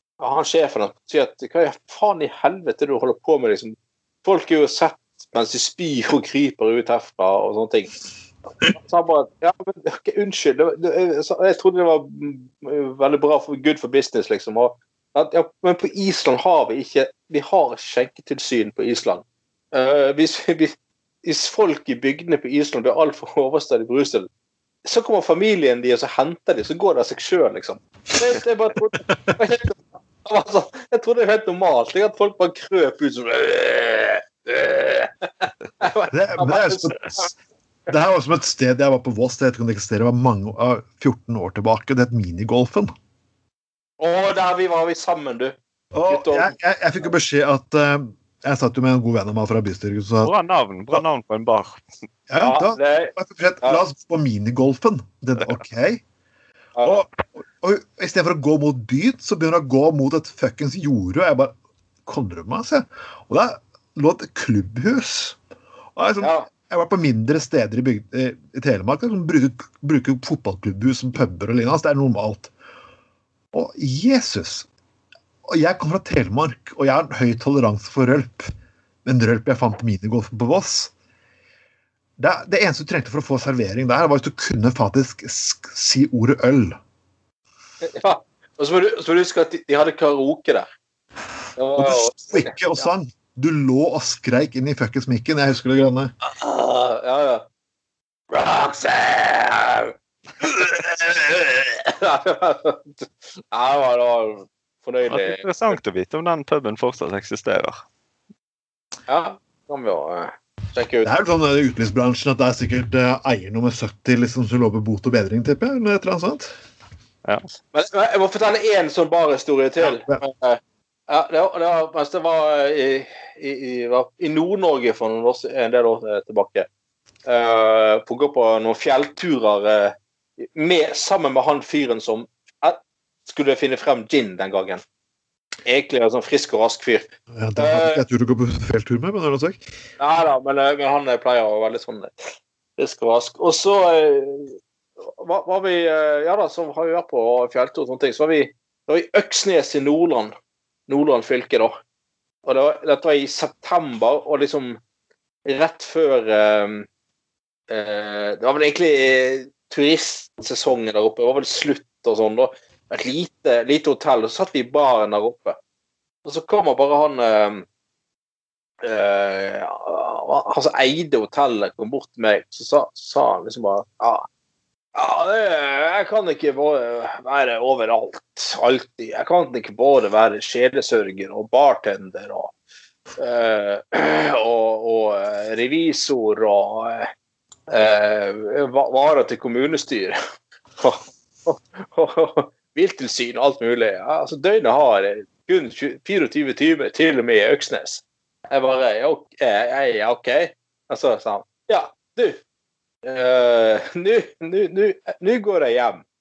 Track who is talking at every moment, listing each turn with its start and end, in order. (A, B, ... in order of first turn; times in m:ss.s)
0:00.2-0:07.9 A
0:08.7-0:24.3 A
0:24.8-0:37.3 A
0:36.1-0:37.3 B
0:37.9-0:42.9 B
0:44.0-0:45.6 A
0:45.9-0:50.3 B
0:46.1-0:46.5 A
0:50.2-0:51.8 C
0:52.3-0:56.0 B
0:52.4-0:53.8 A
0:56.8-0:57.0 A
0:56.8-1:01.5 B
1:02.0-1:05.4 B
1:06.0-1:12.5 B
1:06.2-1:06.5 A
1:13.5-1:14.7 B
1:15.4-1:18.5 B
1:19.0-1:20.9 B
1:22.2-1:26.8 B
1:27.8-1:30.7 A
1:31.6-1:32.9 A
1:31.8-1:36.1 B
1:36.2-1:37.4 A
1:38.3-1:45.7 A
1:45.1-1:47.8 C
1:49.1-1:51.1 A
1:51.0-1:56.5 B
1:57.7-2:06.7 A
1:59.9-2:00.2 B
2:07.2-2:14.8 A
2:15.6-2:18.0 A
2:17.3-2:19.6 B
2:20.0-2:30.3 A
2:30.9-2:31.7 A
2:32.4-2:34.8 A
2:35.4-2:36.9 A
2:37.7-2:45.6 A
2:46.2-2:47.6 A
2:48.8-2:54.3 A
2:54.9-3:02.5 A
3:03.2-3:07.1 A
3:07.7-3:10.2 A
3:10.8-3:22.4 A
3:23.0-3:26.0 A